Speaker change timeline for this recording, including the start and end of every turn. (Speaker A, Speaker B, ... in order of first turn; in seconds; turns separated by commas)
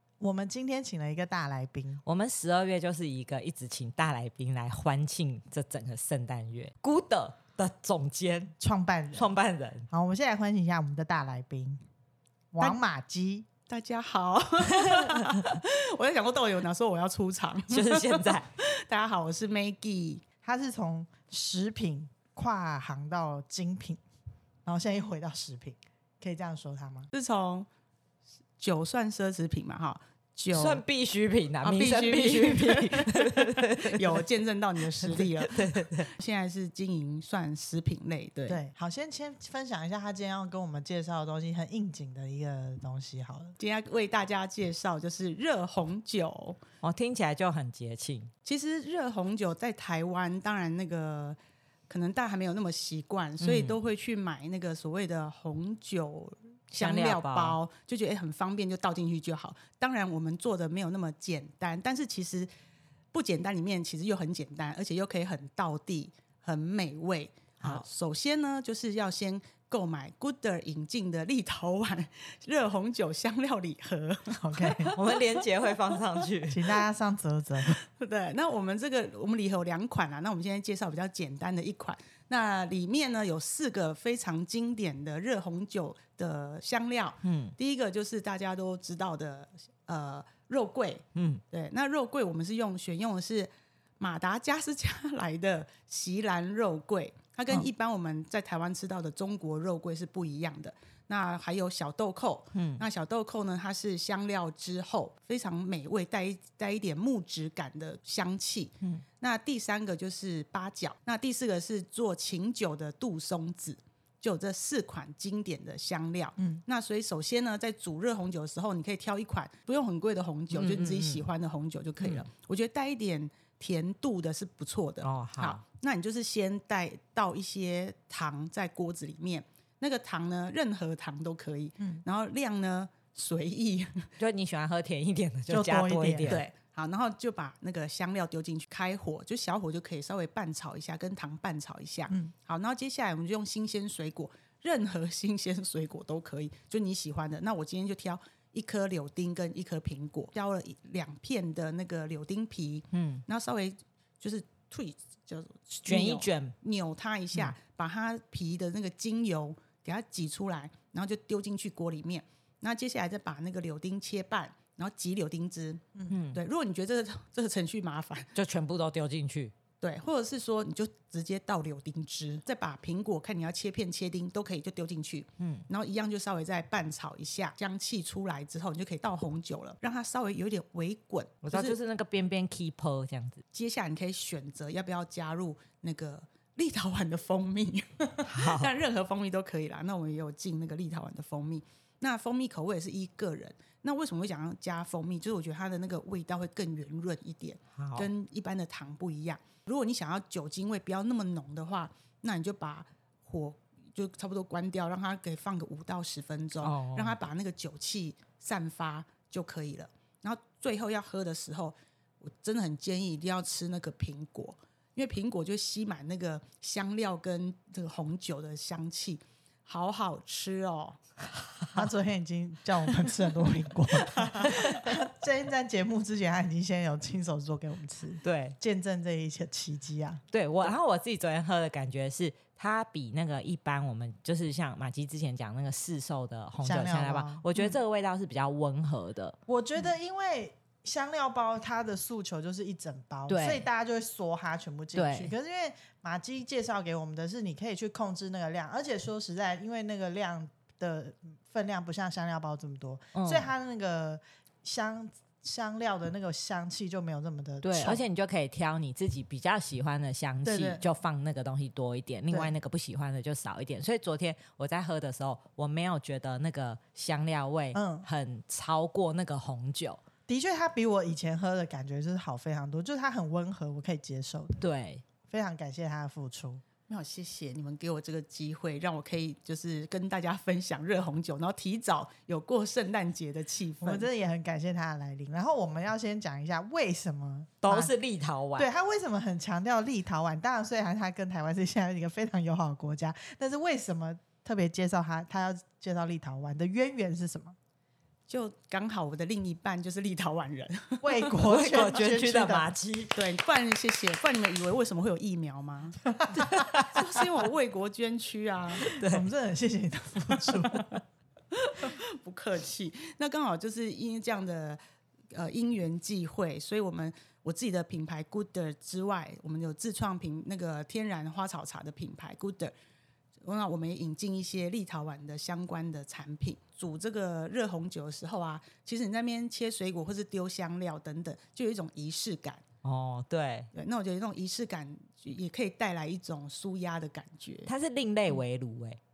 Speaker A: 0.2-2.0, Speaker B: 2.0-8.5, Speaker A: 8.6-9.3, Speaker B: 9.2-9.9, Speaker A: 9.9-11.8, Speaker A: 12.5-13.5, Speaker C: 13.7-20.2, Speaker B: 14.9-15.4, Speaker B: 17.7-18.5, Speaker A: 20.4-24.0, Speaker A: 24.6-27.1, Speaker C: 27.1-27.7, Speaker C: 28.6-30.8, Speaker B: 30.5-34.2, Speaker C: 31.6-38.6, Speaker B: 35.0-36.1, Speaker A: 38.5-43.6, Speaker C: 43.6-46.6, Speaker B: 46.8-48.3, Speaker C: 48.5-51.4, Speaker C: 51.9-62.5, Speaker B: 53.4-53.8, Speaker B: 56.7-57.6, Speaker C: 63.1-76.0, Speaker A: 74.4-75.0, Speaker B: 74.9-76.8, Speaker A: 76.5-77.8, Speaker C: 77.8-134.1, Speaker B: 87.2-87.5, Speaker B: 91.2-91.4, Speaker B: 102.5-102.8, Speaker B: 120.5-121.2, Speaker B: 122.0-122.3, Speaker B: 125.0-125.6, Speaker A: 131.8-132.0, Speaker B: 134.2-136.4, Speaker A: 135.5-136.4, Speaker C: 136.3-168.3, Speaker B: 152.9-153.2, Speaker B: 155.9-156.5, Speaker B: 166.1-166.4, Speaker B: 168.3-169.5, Speaker C: 169.8-181.8, Speaker B: 175.4-175.7, Speaker B: 181.4-183.4, Speaker C: 183.5-221.0, Speaker B: 188.3-188.7, Speaker B: 197.8-198.1, Speaker B: 206.6-207.2, Speaker B: 221.4-221.9, Speaker A: 221.8-230.2, Speaker C: 224.2-224.6, Speaker B: 228.2-228.6, Speaker B: 230.3-239.4, Speaker A: 236.6-237.8, Speaker A: 239.5-258.0, Speaker B: 243.3-243.7, Speaker B: 244.9-245.3, Speaker B: 253.2-253.5, Speaker B: 257.6-270.0, Speaker A: 260.4-260.8, Speaker A: 267.7-268.1, Speaker A: 270.3-274.6, Speaker B: 274.6-275.0, Speaker A: 275.3-276.6, Speaker C: 276.9-284.1, Speaker A: 283.8-287.9, Speaker B: 287.6-288.7, Speaker A: 288.6-297.6, Speaker C: 298.3-301.5, Speaker A: 301.0-302.7, Speaker B: 301.4-303.2, Speaker C: 303.1-306.0, Speaker A: 306.2-306.7, Speaker B: 306.3-307.2, Speaker C: 306.8-308.9, Speaker B: 308.8-309.3, Speaker A: 308.9-311.0, Speaker C: 310.4-311.0, Speaker C: 311.5-314.8, Speaker C: 315.3-322.7, Speaker C: 323.4-332.6, Speaker B: 332.8-333.7, Speaker C: 333.7-337.7, Speaker B: 337.7-339.0